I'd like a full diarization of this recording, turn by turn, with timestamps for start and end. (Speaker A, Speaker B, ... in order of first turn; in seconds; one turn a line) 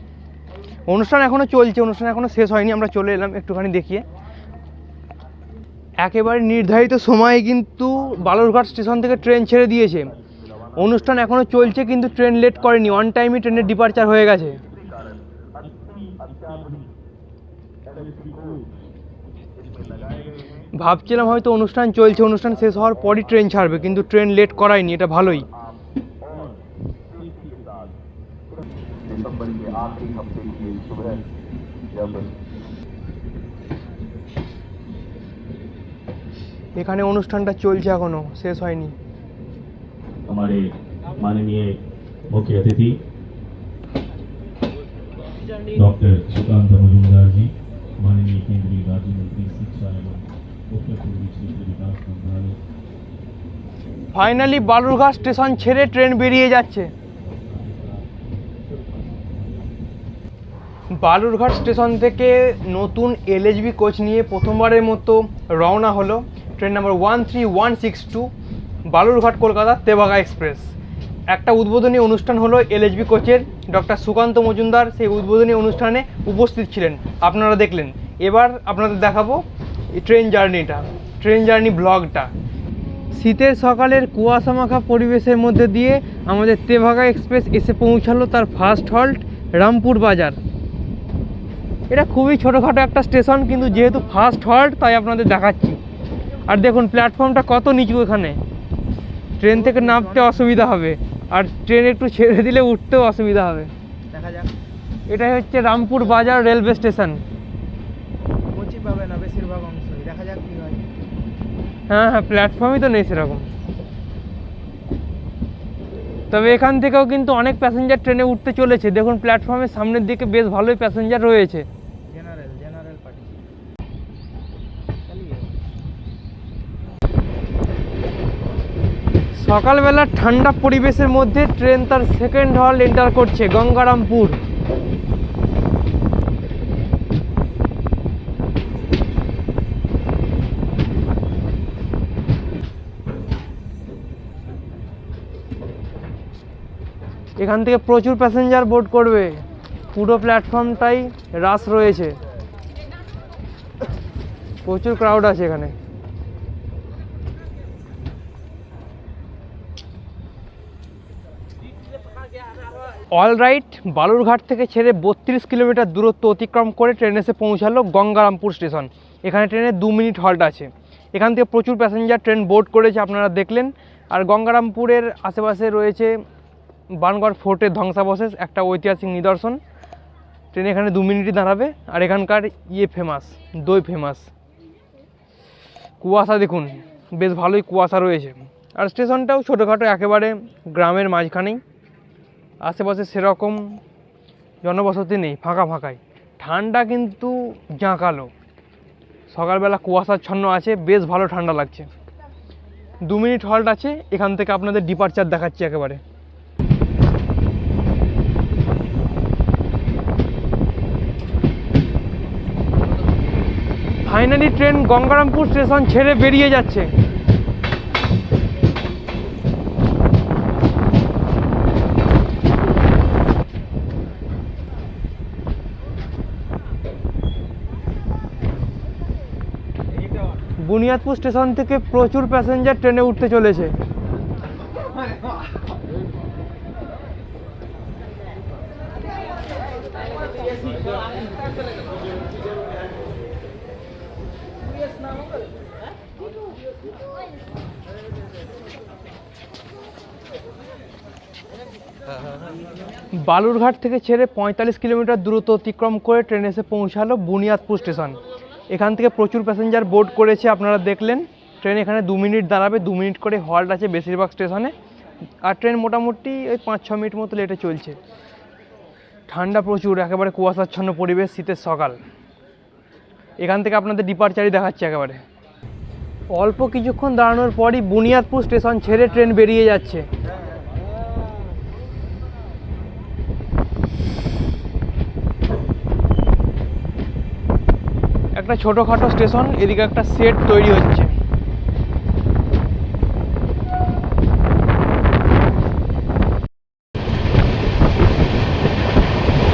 Speaker A: 0.9-4.0
Speaker A: 6.0-10.1
Speaker A: 10.8-14.6
Speaker B: 15.6-16.9
Speaker B: 17.9-18.6
Speaker A: 20.7-25.4
Speaker B: 27.2-27.7
Speaker B: 29.1-31.2
Speaker B: 31.9-32.3
Speaker A: 36.8-38.9
Speaker B: 40.3-43.0
Speaker B: 45.7-52.6
Speaker A: 54.1-56.9
Speaker B: 57.3-58.0
Speaker B: 58.9-59.7
Speaker A: 60.9-68.3
Speaker A: 68.9-70.7
Speaker A: 71.3-82.3
Speaker A: 83.1-90.4
Speaker A: 91.9-95.8
Speaker A: 96.5-98.4
Speaker A: 99.4-103.7
Speaker C: 99.5-100.5
Speaker C: 104.1-104.5
Speaker A: 105.1-107.2
Speaker C: 108.5-110.8
Speaker A: 111.9-113.4
Speaker A: 116.3-121.7
Speaker C: 122.1-123.4
Speaker C: 125.1-125.5
Speaker A: 129.3-134.4
Speaker A: 147.4-152.2
Speaker A: 154.6-155.7
Speaker A: 163.1-176.2
Speaker A: 177.0-179.6
Speaker A: 180.5-184.3
Speaker A: 186.0-191.6
Speaker A: 192.6-193.8
Speaker A: 194.6-198.3
Speaker A: 199.3-201.9
Speaker A: 203.0-206.0
Speaker A: 214.1-216.9
Speaker A: 230.6-233.7
Speaker A: 253.1-258.2
Speaker A: 258.7-264.7
Speaker A: 265.4-268.0
Speaker A: 269.3-272.0
Speaker A: 273.4-275.2
Speaker A: 276.3-280.0
Speaker A: 288.3-291.1